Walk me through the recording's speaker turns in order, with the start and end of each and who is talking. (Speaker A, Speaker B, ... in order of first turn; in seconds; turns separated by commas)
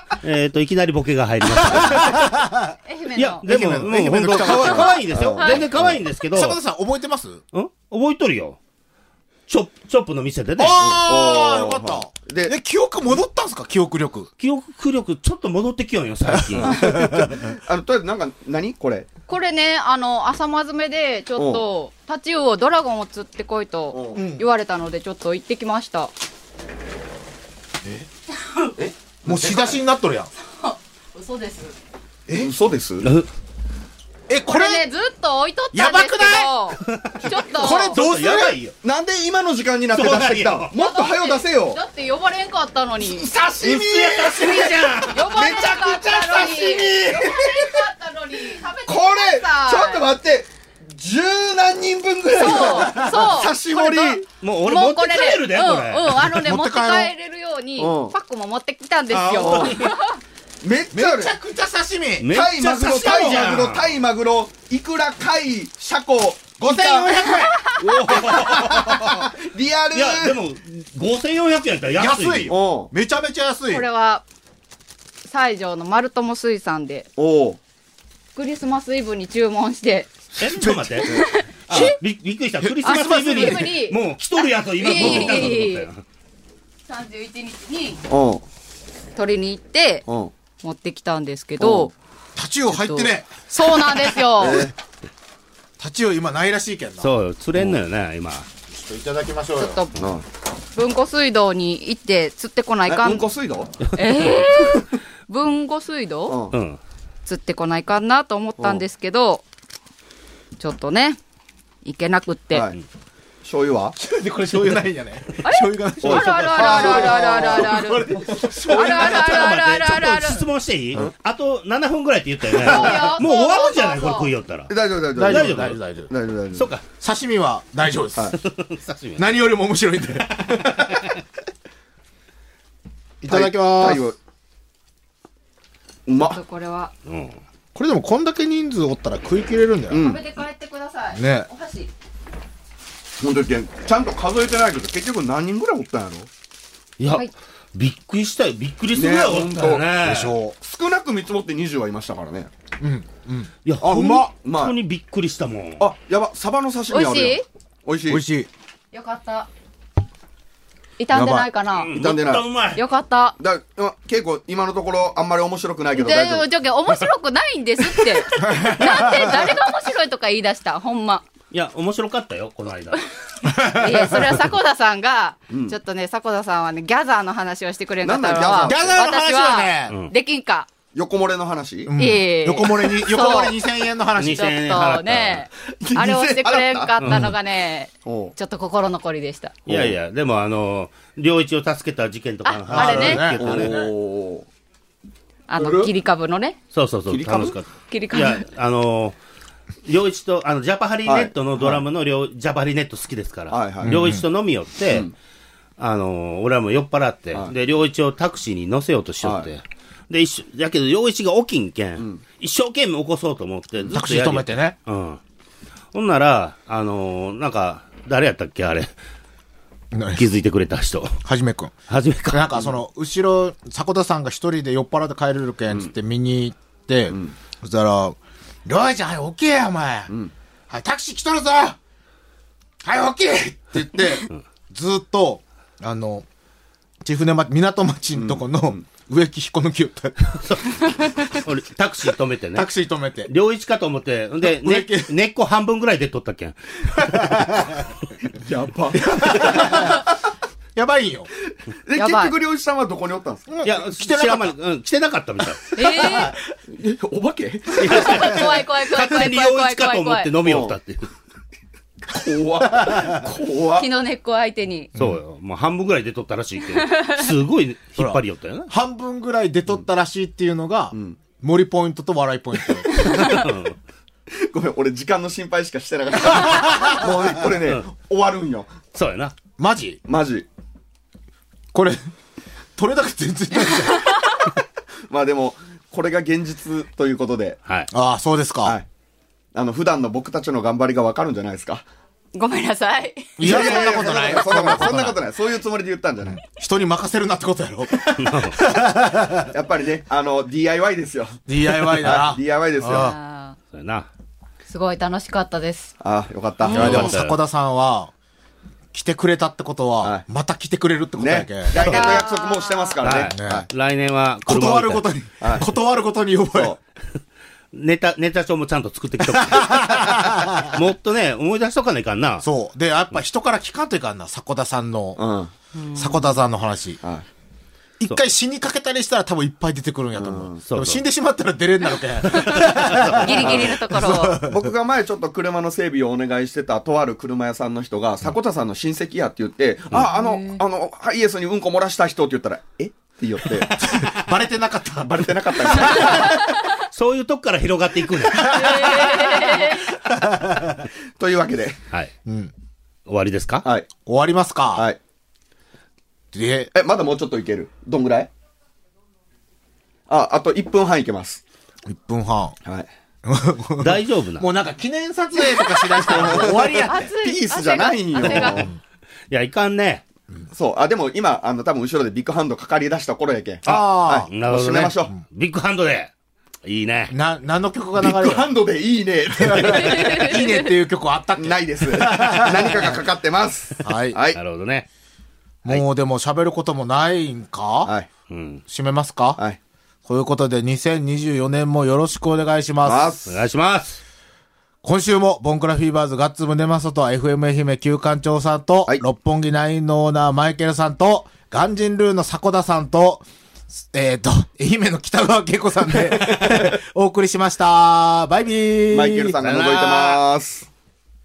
Speaker A: 0.2-2.4, Speaker B: 1.4-2.7, Speaker C: 2.9-3.5, Speaker A: 3.1-6.6, Speaker B: 3.5-5.3, Speaker D: 4.4-6.0, Speaker C: 5.4-5.6, Speaker B: 6.3-7.4, Speaker A: 7.5-8.6, Speaker A: 9.5-10.9, Speaker B: 10.6-14.3, Speaker D: 10.8-12.5, Speaker A: 14.4-17.0, Speaker B: 16.3-17.4, Speaker D: 16.6-19.1, Speaker C: 19.3-26.1, Speaker D: 21.4-21.6, Speaker D: 23.9-24.2, Speaker B: 24.2-24.4, Speaker D: 28.8-29.8, Speaker B: 29.2-30.3, Speaker C: 30.6-31.7, Speaker D: 32.3-33.1, Speaker A: 33.0-33.3, Speaker B: 34.3-34.9, Speaker C: 34.5-38.0, Speaker B: 35.7-36.6, Speaker A: 36.8-38.8, Speaker B: 37.5-38.6, Speaker D: 38.4-41.8, Speaker A: 39.9-40.7, Speaker C: 40.7-43.3, Speaker D: 43.0-44.7, Speaker A: 43.6-45.7, Speaker B: 43.6-44.8, Speaker C: 44.4-50.1, Speaker D: 45.3-47.9, Speaker D: 48.9-54.2, Speaker C: 52.4-60.2, Speaker B: 52.7-53.2, Speaker A: 54.3-56.4, Speaker B: 56.4-57.1, Speaker D: 57.8-58.1, Speaker A: 59.1-59.9, Speaker D: 59.4-59.8, Speaker D: 60.6-61.3, Speaker B: 60.9-62.4, Speaker A: 62.2-63.9, Speaker D: 62.3-67.3, Speaker B: 66.6-69.2, Speaker A: 67.6-69.3, Speaker D: 68.1-70.4, Speaker A: 69.9-72.5, Speaker B: 72.0-73.9, Speaker D: 72.5-72.9, Speaker C: 73.7-74.2, Speaker C: 75.3-77.1, Speaker D: 77.2-77.6, Speaker C: 78.3-80.1, Speaker A: 80.4-86.0, Speaker B: 80.6-81.1, Speaker C: 81.1-82.0, Speaker B: 82.6-83.9, Speaker C: 82.8-85.9, Speaker C: 86.9-88.0, Speaker D: 88.1-88.5, Speaker C: 89.1-90.0, Speaker D: 90.1-90.3, Speaker C: 90.6-91.9, Speaker D: 91.6-91.9, Speaker B: 92.4-93.3, Speaker C: 92.7-94.7, Speaker D: 94.4-94.7, Speaker B: 95.8-97.1, Speaker A: 97.0-98.5, Speaker B: 98.7-99.8, Speaker C: 99.6-99.9, Speaker D: 100.0-100.2, Speaker C: 100.8-103.3, Speaker D: 102.8-103.8, Speaker A: 103.8-104.4, Speaker C: 104.0-106.4, Speaker D: 106.3-106.5, Speaker A: 106.5-106.8, Speaker C: 107.2-109.5, Speaker C: 110.6-111.2, Speaker C: 111.8-112.7, Speaker D: 112.5-112.8, Speaker D: 113.4-114.0, Speaker B: 114.0-119.5, Speaker C: 115.4-120.5, Speaker D: 116.0-119.4, Speaker A: 116.2-117.0, Speaker A: 118.8-126.8, Speaker C: 122.5-124.3, Speaker D: 122.6-123.2, Speaker D: 124.7-126.7, Speaker B: 125.1-126.0, Speaker B: 127.0-128.4, Speaker A: 128.4-129.2, Speaker B: 129.2-131.0, Speaker A: 130.4-131.2, Speaker B: 133.2-134.0, Speaker D: 133.3-134.2, Speaker D: 136.1-136.4, Speaker C: 136.3-136.9, Speaker A: 137.1-137.4, Speaker B: 137.8-140.1, Speaker D: 139.9-140.2, Speaker C: 139.9-141.9, Speaker B: 141.1-141.5, Speaker D: 143.2-146.3, Speaker A: 147.0-150.3, Speaker D: 148.9-149.9, Speaker B: 149.6-150.6, Speaker D: 150.6-152.5, Speaker B: 152.8-154.2, Speaker A: 153.7-155.9, Speaker D: 153.8-154.8, Speaker D: 155.8-158.2, Speaker C: 156.9-157.4, Speaker B: 158.1-158.5, Speaker C: 158.9-159.5, Speaker C: 161.0-162.0, Speaker B: 161.1-161.5, Speaker A: 161.7-162.8, Speaker D: 161.9-162.5, Speaker C: 162.8-163.4, Speaker D: 163.4-166.4, Speaker C: 165.9-171.3, Speaker B: 168.5-169.4, Speaker A: 171.5-173.0, Speaker B: 173.5-174.4, Speaker C: 173.6-180.7, Speaker D: 175.5-175.8, Speaker D: 178.0-179.1, Speaker B: 178.7-180.0, Speaker A: 179.9-180.1, Speaker D: 180.9-181.9, Speaker B: 181.9-184.5, Speaker C: 182.0-183.7, Speaker A: 184.2-185.5, Speaker C: 184.3-189.7, Speaker D: 185.8-187.2, Speaker A: 187.0-187.3, Speaker D: 188.0-188.3, Speaker A: 189.7-193.8, Speaker C: 192.4-193.4, Speaker B: 192.7-193.9, Speaker D: 192.8-194.5, Speaker C: 195.5-196.6, Speaker B: 195.6-195.9, Speaker A: 196.7-199.2, Speaker D: 197.1-197.5, Speaker C: 197.4-198.5, Speaker A: 199.9-205.1, Speaker D: 201.1-201.8, Speaker D: 203.5-204.2, Speaker B: 203.8-204.2, Speaker A: 205.8-215.2, Speaker D: 209.2-209.5, Speaker D: 212.0-212.2, Speaker B: 213.9-214.8, Speaker A: 215.9-218.9, Speaker B: 219.9-220.3, Speaker A: 220.2-221.2, Speaker B: 221.2-230.1, Speaker A: 221.9-222.6, Speaker D: 227.1-227.3, Speaker B: 230.7-231.8, Speaker B: 232.8-236.3, Speaker B: 237.0-240.4, Speaker D: 238.1-238.8, Speaker A: 240.4-242.7, Speaker B: 242.6-243.3, Speaker A: 243.2-247.6, Speaker B: 244.4-245.1, Speaker B: 246.9-247.8, Speaker D: 248.4-250.0, Speaker B: 248.9-250.0, Speaker B: 250.8-251.3, Speaker D: 251.9-253.5, Speaker C: 252.0-252.4, Speaker B: 253.5-254.5, Speaker A: 253.6-256.2, Speaker C: 255.8-256.4, Speaker D: 256.7-258.5, Speaker A: 257.8-261.1, Speaker C: 257.9-260.4, Speaker D: 260.4-260.8, Speaker D: 262.1-263.9, Speaker C: 263.7-264.9, Speaker A: 265.0-268.7, Speaker C: 266.7-267.3, Speaker B: 268.0-272.9, Speaker D: 270.9-271.2, Speaker A: 273.2-273.8, Speaker D: 274.4-278.8, Speaker B: 276.3-277.0, Speaker A: 278.9-279.4, Speaker B: 279.6-280.0, Speaker D: 280.1-280.5, Speaker B: 281.7-282.1, Speaker B: 282.8-284.1, Speaker C: 283.6-284.4, Speaker D: 285.1-287.6, Speaker A: 287.7-287.9, Speaker B: 287.9-288.8, Speaker D: 289.6-291.9, Speaker C: 292.3-293.4, Speaker B: 293.4-295.2, Speaker D: 293.4-296.4, Speaker B: 296.2-299.5, Speaker A: 298.2-298.6, Speaker D: 299.5-303.1, Speaker B: 301.5-303.1, Speaker C: 302.9-303.6, Speaker A: 303.7-304.1, Speaker C: 304.7-305.9, Speaker D: 306.0-307.2, Speaker A: 306.6-307.4, Speaker B: 306.7-308.1, Speaker B: 308.9-311.8, Speaker D: 311.2-313.7, Speaker C: 311.8-313.2, Speaker A: 311.8-312.1, Speaker A: 313.0-315.1, Speaker B: 313.3-313.7, Speaker B: 314.5-316.8, Speaker D: 315.4-315.7, Speaker D: 316.6-316.8, Speaker A: 317.7-322.5, Speaker B: 319.3-320.8, Speaker B: 322.4-325.2, Speaker D: 325.2-325.5, Speaker B: 325.9-327.0, Speaker B: 328.0-334.7, Speaker D: 330.2-330.6, Speaker A: 330.6-331.0, Speaker C: 332.4-334.4, Speaker A: 332.9-333.7, Speaker D: 333.3-344.0, Speaker A: 339.9-340.2, Speaker B: 343.8-346.3, Speaker D: 345.0-346.4, Speaker A: 346.9-349.0, Speaker B: 348.3-349.5, Speaker C: 348.6-349.8, Speaker B: 350.1-350.8, Speaker D: 351.2-351.8, Speaker B: 352.3-352.5, Speaker A: 353.1-353.6, Speaker D: 353.6-353.9, Speaker B: 354.1-354.9, Speaker D: 354.7-355.0, Speaker B: 356.3-356.7, Speaker D: 356.7-358.3, Speaker D: 360.1-361.4, Speaker B: 361.9-362.6, Speaker B: 363.2-367.1, Speaker A: 363.8-364.5, Speaker C: 365.4-368.7, Speaker D: 366.1-368.7, Speaker B: 368.2-368.8, Speaker A: 369.3-370.0, Speaker D: 370.5-375.1, Speaker B: 373.7-374.3, Speaker A: 373.7-376.1, Speaker A: 376.6-377.1, Speaker B: 377.1-378.5, Speaker D: 378.0-380.4, Speaker B: 379.4-383.0, Speaker D: 381.4-384.4, Speaker B: 383.8-384.2, Speaker A: 384.3-384.9, Speaker B: 385.6-387.9, Speaker A: 388.3-388.6, Speaker B: 388.7-389.4, Speaker B: 390.1-393.1, Speaker D: 392.8-393.3, Speaker A: 393.3-394.0, Speaker B: 394.8-403.2, Speaker B: 403.8-409.4, Speaker D: 406.2-406.7, Speaker D: 408.9-410.7, Speaker A: 409.4-410.2